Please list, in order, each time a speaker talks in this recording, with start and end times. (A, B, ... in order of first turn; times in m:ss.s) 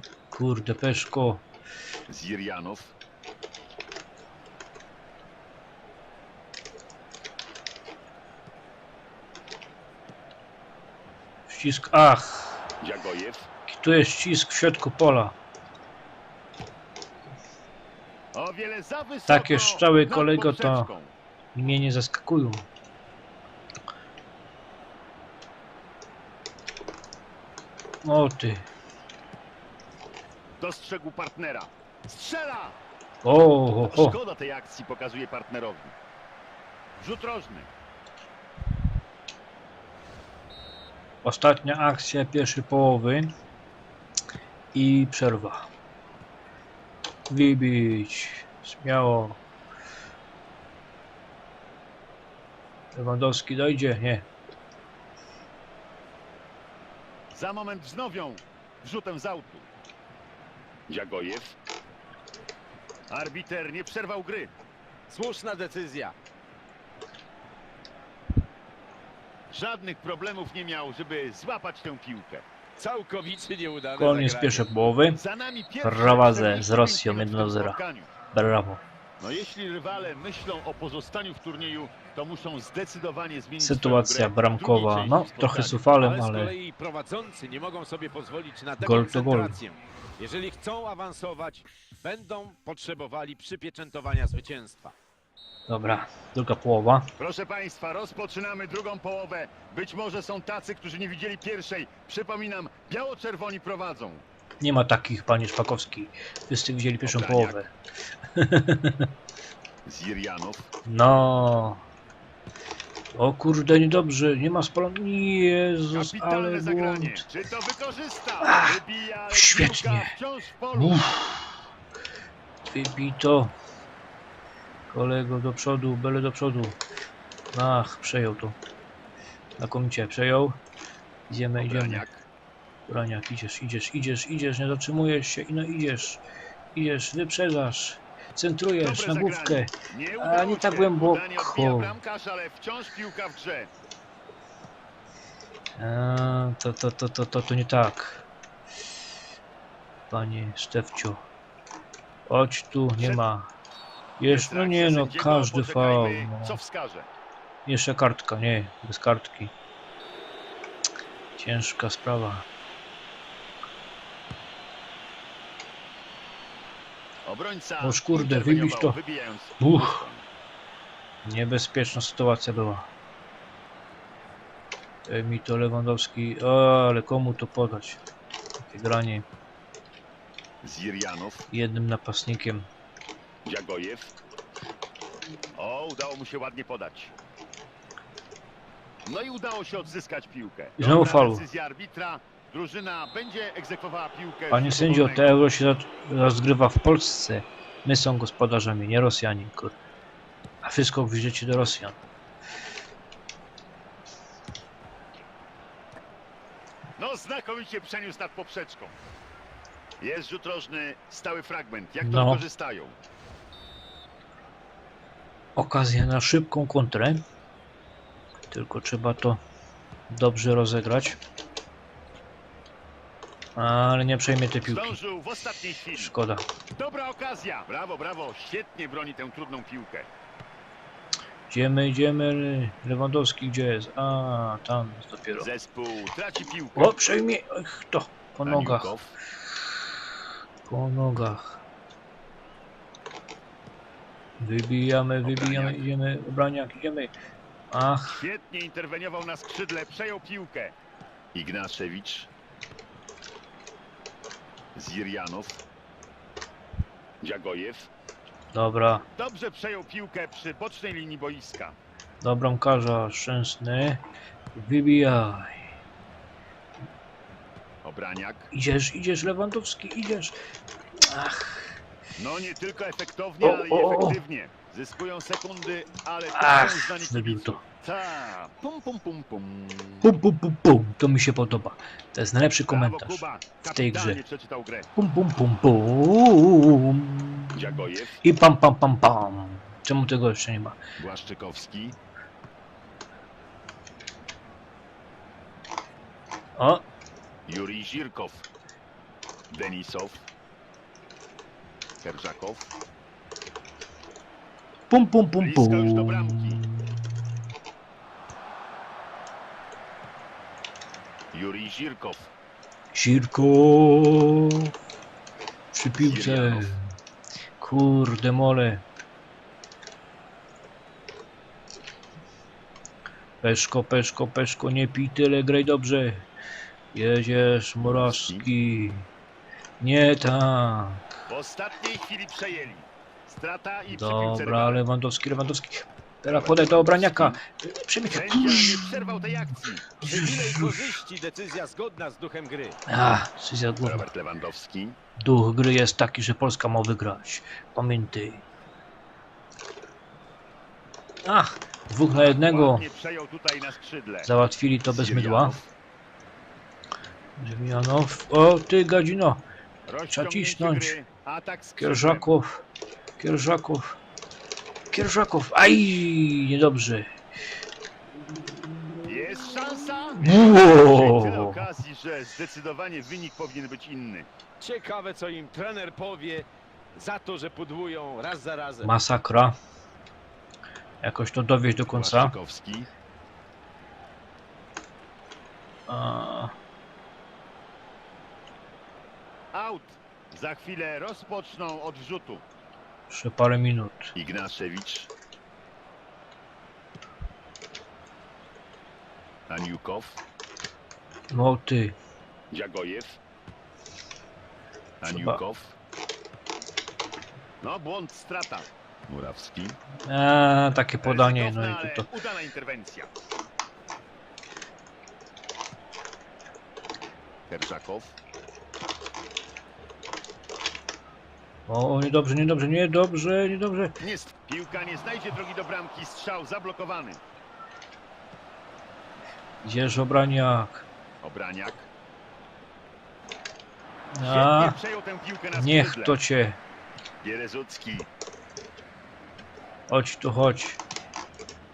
0:00.3-0:01.4 A
0:02.1-0:02.9 B
0:11.5-0:12.6 A
0:12.8-0:13.5 B
0:13.7-0:15.4 A
0:18.3-0:21.1 B
0:19.3-0:20.9 A
0:21.6-0:22.6 A
0:28.0-0:28.7 A
0:30.6-0:32.8 B
0:33.2-0:34.2 A
0:33.9-0:36.0 B
0:37.0-0:37.7 B
0:41.2-0:43.3 A
0:44.7-0:45.7 A
0:47.3-0:49.4 A
0:52.9-0:54.3 A
0:57.3-0:59.7 B
1:00.9-1:01.6 B
1:03.1-1:04.5 B
1:05.1-1:06.1 C
1:09.5-1:12.4 B
1:12.8-1:14.7 C
1:14.0-1:15.2 A
1:15.2-1:18.1 B
1:15.8-1:17.8 A
1:18.3-1:18.8 A
1:19.2-1:25.8 B
1:23.6-1:26.5 A
1:26.0-1:34.9 C
1:28.8-1:29.6 A
1:35.7-1:37.1 A
1:37.2-1:44.2 B
1:44.6-1:47.7 A
1:47.0-1:47.6 B
1:48.4-1:49.1 A
1:49.8-1:50.7 B
1:50.9-1:51.8 A
1:53.1-1:57.3 A
1:55.9-2:01.1 B
1:58.4-1:58.8 A
1:59.3-2:00.1 A
2:00.7-2:01.5 A
2:02.7-2:03.6 A
2:04.9-2:06.8 A
2:07.5-2:08.6 A
2:09.6-2:10.6 A
2:11.3-2:12.0 A
2:11.6-2:12.3 B
2:12.9-2:16.2 A
2:16.8-2:22.0 A
2:18.8-2:23.7 B
2:25.8-2:28.3 A
2:30.1-2:31.2 A
2:32.3-2:33.5 A
2:33.0-2:33.2 B
2:34.2-2:36.6 A
2:34.2-2:37.1 B
2:37.7-2:39.5 A
2:41.4-2:42.5 A
2:47.2-2:50.2 B
2:47.8-2:49.0 A
2:49.6-2:50.0 A
2:51.2-2:52.9 A
2:55.1-2:58.0 A
2:58.6-2:59.2 A
3:00.6-3:01.5 B
3:01.5-3:02.7 A
3:03.4-3:04.1 B
3:05.6-3:07.1 B
3:09.0-3:15.3 B
3:10.8-3:11.4 A
3:14.5-3:19.8 A
3:20.6-3:22.0 A
3:27.0-3:28.9 B
3:30.0-3:33.0 B
3:32.0-3:32.4 A
3:35.6-3:37.2 A
3:38.5-3:39.4 A
3:40.1-3:41.2 A
3:43.6-3:45.0 A
3:44.6-3:46.1 B
3:45.9-3:46.5 A
3:46.8-3:50.1 B
3:51.5-3:55.5 A
3:55.4-3:57.0 B
3:56.8-3:58.9 A
3:58.4-3:59.2 B
4:00.6-4:01.6 A
4:04.4-4:07.1 A
4:05.2-4:05.8 B
4:07.7-4:08.2 A
4:08.1-4:10.8 B
4:11.3-4:12.3 B
4:14.7-4:15.6 B
4:17.2-4:17.9 B
4:18.5-4:19.0 A
4:19.1-4:21.8 B
4:22.2-4:24.0 A
4:24.6-4:25.5 A
4:27.8-4:28.5 B
4:28.5-4:30.4 A
4:31.0-4:31.6 A
4:32.2-4:40.1 B
4:33.4-4:34.2 A
4:36.3-4:37.6 A
4:40.0-4:44.2 A
4:42.7-4:44.9 B
4:45.0-4:50.8 A
4:47.5-4:48.2 B
4:51.0-4:52.0 B
4:56.6-4:56.8 A
4:57.5-4:58.5 B
4:59.5-5:00.3 B
5:02.0-5:02.7 B
5:04.9-5:07.2 A
5:05.4-5:06.6 B
5:11.3-5:12.3 B
5:12.9-5:14.7 A
5:15.7-5:16.8 A
5:16.0-5:16.8 B
5:17.6-5:18.8 A
5:23.4-5:26.3 A
5:26.9-5:29.1 A
5:27.8-5:28.5 B
5:29.8-5:31.0 A
5:31.3-5:34.8 B
5:33.9-5:40.8 A
5:36.3-5:37.4 B
5:38.1-5:39.9 B
5:40.0-5:42.8 C
5:42.9-5:44.1 A
5:43.8-5:45.0 B
5:45.2-5:48.4 A
5:51.2-5:52.8 A
5:52.2-5:54.3 B
5:54.2-5:55.6 A
5:54.9-5:55.7 B
5:57.4-5:59.4 A
5:59.9-6:02.3 B
6:00.1-6:01.0 A
6:01.8-6:02.6 A
6:03.2-6:04.0 A
6:04.9-6:07.1 A
6:09.0-6:14.3 B
6:10.2-6:11.6 A
6:14.6-6:18.9 C
6:18.8-6:19.6 A
6:21.0-6:22.3 A
6:21.9-6:22.9 B
6:25.9-6:26.5 A
6:29.5-6:32.4 B
6:33.1-6:34.1 A
6:34.2-6:35.1 B
6:39.5-6:40.2 B
6:41.3-6:42.0 A
6:42.5-6:43.2 B
6:45.0-6:45.8 B
6:45.1-6:45.4 A
6:47.6-6:49.8 B
6:50.1-6:52.1 A
6:51.0-6:53.1 B
6:57.5-6:58.2 B
7:01.7-7:04.0 A
7:04.0-7:07.2 B
7:09.6-7:10.9 A
7:11.2-7:11.9 B
7:14.1-7:14.8 A
7:14.2-7:16.2 B
7:15.5-7:16.6 A
7:17.2-7:18.1 B
7:19.9-7:20.8 A